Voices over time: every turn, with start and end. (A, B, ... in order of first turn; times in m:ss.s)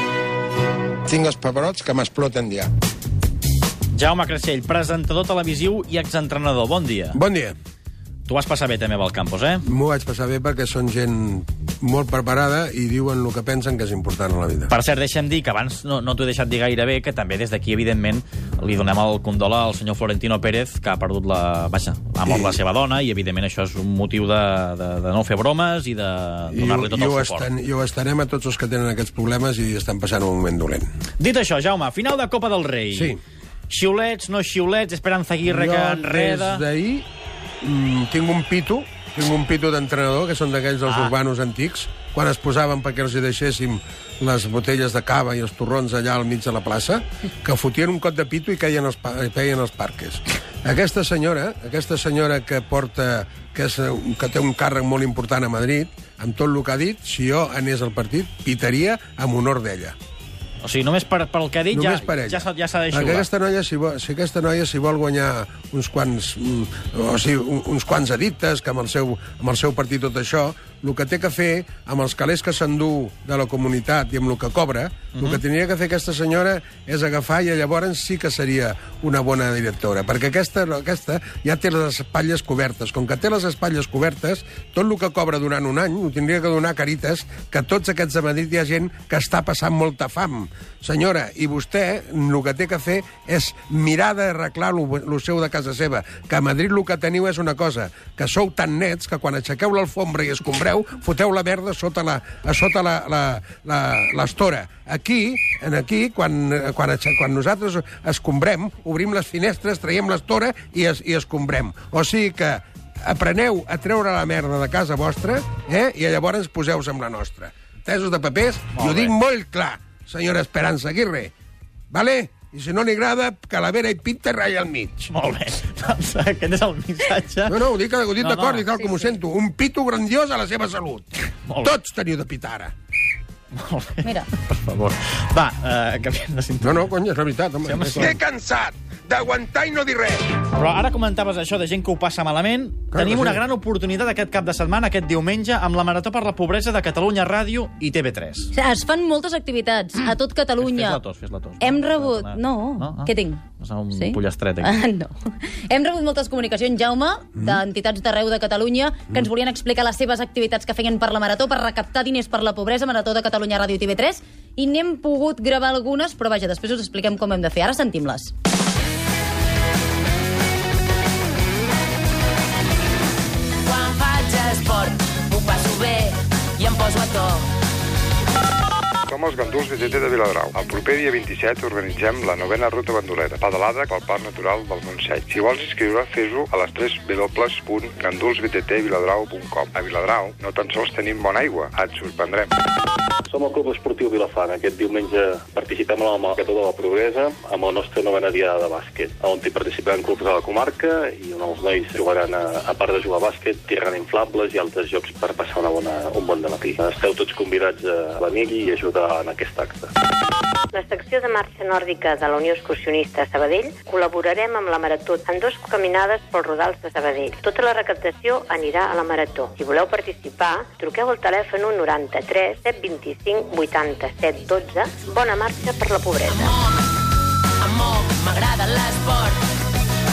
0:01.2-0:02.5 A
0:03.9-0:07.2 B
0:07.1-0:07.6 A
0:08.3-0:09.6 B
0:09.7-0:14.8 A
0:14.7-0:27.5 B
0:22.2-0:22.6 A
0:26.5-0:30.9 A
0:31.2-0:33.1 B
0:32.9-0:33.2 A
0:33.7-0:36.6 B
0:35.4-0:37.1 A
0:37.6-1:00.0 A
1:00.6-1:03.3 B
1:01.7-2:01.3 A
1:15.1-1:15.4 B
1:58.7-1:59.1 B
2:01.9-2:05.1 A
2:05.1-2:07.6 B
2:07.5-2:12.7 A
2:08.2-2:08.7 B
2:11.5-2:11.7 B
2:13.5-2:16.9 B
2:16.6-2:20.2 A
2:17.7-2:18.2 B
2:20.5-2:28.5 B
2:22.9-2:23.4 A
2:28.5-2:31.0 C
2:30.6-2:34.7 B
2:31.6-2:48.3 C
2:53.7-2:57.4 D
2:59.1-3:12.5 E
3:13.3-3:29.9 F
3:30.7-3:46.6 G
3:46.3-3:46.6 D
3:47.6-3:49.4 D